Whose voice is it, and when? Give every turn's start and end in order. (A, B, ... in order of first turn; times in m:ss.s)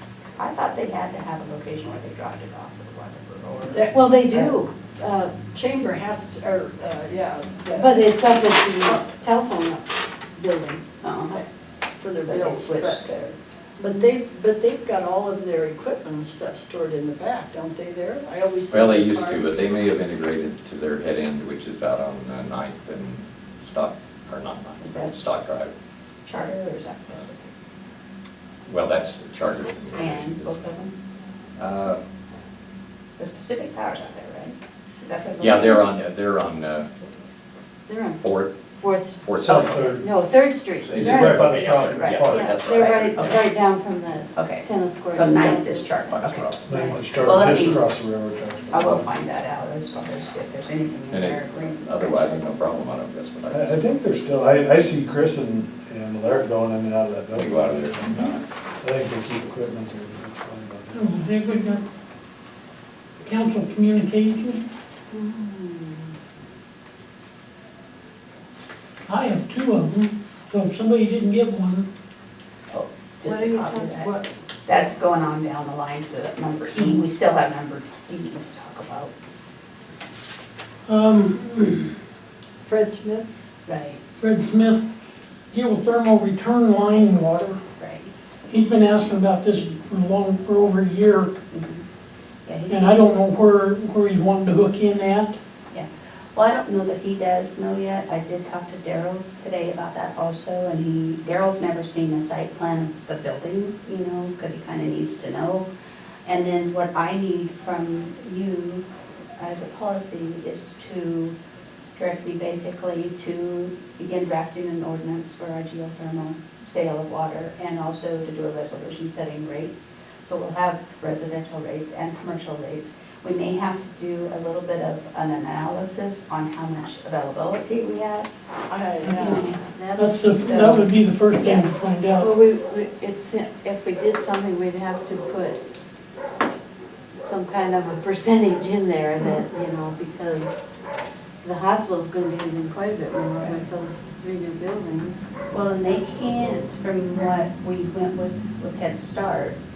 0:00.4-0:03.9 A
0:03.7-0:04.6 B
0:03.9-0:05.3 C
0:05.5-0:09.1 B
0:07.7-0:11.4 C
0:11.0-0:11.4 A
0:12.0-0:13.1 B
0:12.2-0:13.4 A
0:13.8-0:19.5 B
0:18.7-0:25.7 D
0:24.8-0:25.2 A
0:26.2-0:27.5 A
0:28.6-0:30.7 D
0:29.9-0:31.0 A
0:31.6-0:32.0 D
0:33.2-0:35.9 A
0:35.4-0:36.9 D
0:37.9-0:41.6 C
0:38.2-0:38.6 D
0:39.2-0:40.0 D
0:39.3-0:40.1 E
0:40.8-0:43.4 D
0:40.9-0:42.6 E
0:41.9-0:43.2 A
0:42.3-0:45.9 C
0:44.4-0:47.8 A
0:46.1-0:46.6 D
0:46.7-0:49.1 E
0:46.7-0:47.0 C
0:48.7-0:52.6 A
0:51.1-0:53.9 D
0:53.5-1:01.1 E
0:57.3-0:58.5 D
1:00.9-1:01.8 F
1:03.2-1:04.6 F
1:05.1-1:06.1 C
1:09.1-1:11.9 F
1:12.7-1:14.1 A
1:13.2-1:14.3 C
1:14.7-1:19.1 A
1:20.9-1:22.0 F
1:22.6-1:23.3 B
1:23.6-1:24.0 A
1:24.2-1:24.8 F
1:25.5-1:27.6 F
1:27.4-1:28.1 A
1:28.5-1:31.3 F
1:29.5-1:29.8 A
1:31.5-1:31.8 A
1:32.4-1:33.0 A
1:32.7-1:35.4 F
1:35.7-1:45.7 A
1:46.2-1:51.4 A
1:51.9-2:08.3 A
2:08.7-2:09.4 B
2:09.0-2:10.9 C
2:09.1-2:09.6 A
2:10.0-2:12.3 F
2:10.4-2:11.7 A
2:12.2-2:15.6 C
2:17.2-2:20.8 C
2:21.4-2:25.3 C
2:25.5-2:29.6 A